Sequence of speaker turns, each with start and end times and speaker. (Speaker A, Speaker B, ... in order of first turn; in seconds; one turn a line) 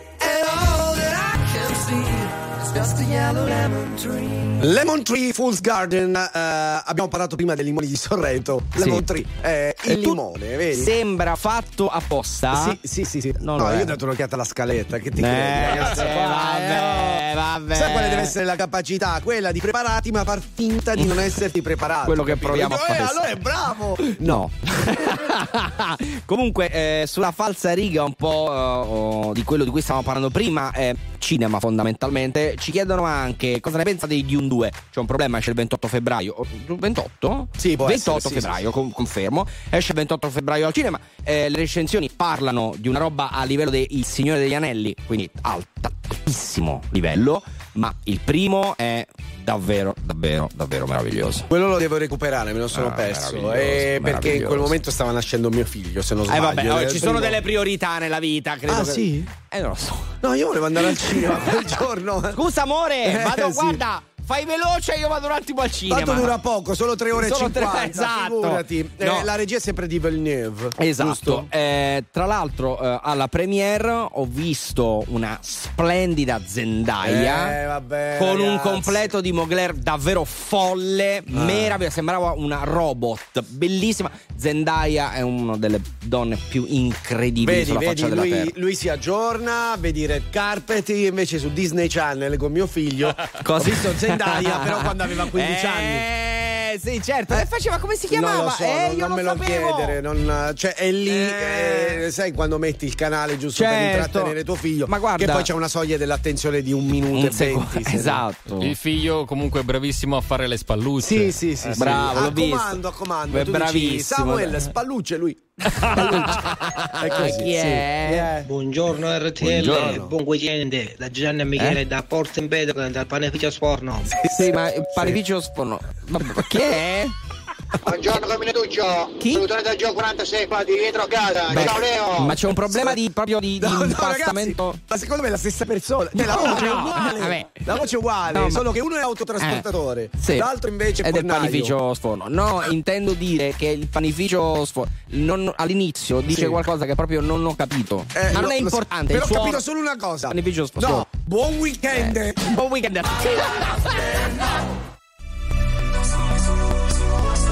Speaker A: 0.2-4.5
Speaker B: 4.6-10.9
Speaker C: 8.8-9.1
Speaker C: 9.9-10.2
Speaker C: 10.7-12.8
Speaker B: 12.5-24.5
Speaker C: 13.4-13.9
Speaker C: 15.2-18.3
Speaker C: 22.1-23.3
Speaker C: 24.1-51.5
Speaker B: 37.6-38.6
Speaker B: 51.5-57.4
Speaker C: 52.7-54.8
Speaker C: 56.3-60.1
Speaker B: 58.7-59.3
Speaker B: 60.2-62.4
Speaker C: 60.9-61.3
Speaker C: 62.4-66.4
Speaker B: 63.0-63.8
Speaker B: 65.9-71.5
Speaker C: 67.1-69.3
Speaker C: 70.8-77.5
Speaker B: 77.0-79.1
Speaker C: 78.2-88.5
Speaker B: 81.3-81.8
Speaker B: 87.4-96.0
Speaker C: 93.4-100.0
Speaker B: 98.1-108.2
Speaker C: 101.1-102.0
Speaker C: 103.5-105.5
Speaker C: 107.1-108.7
Speaker D: 108.6-112.0
Speaker B: 111.0-116.0
Speaker C: 111.7-114.7
Speaker C: 115.8-118.4
Speaker B: 117.0-118.3
Speaker E: 118.6-119.7
Speaker B: 119.4-120.1
Speaker E: 121.0-122.0
Speaker C: 121.5-121.8
Speaker E: 122.9-123.6
Speaker C: 124.2-127.1
Speaker F: 127.8-132.4
Speaker C: 129.2-129.4
Speaker C: 131.5-134.8
Speaker B: 131.5-131.8
Speaker B: 132.7-133.0
Speaker B: 133.6-141.7
Speaker C: 136.2-138.6
Speaker C: 139.4-139.6
Speaker C: 140.2-140.5
Speaker C: 141.0-149.6
Speaker B: 146.3-146.6
Speaker B: 148.1-152.6
Speaker C: 150.3-151.1
Speaker C: 151.9-154.2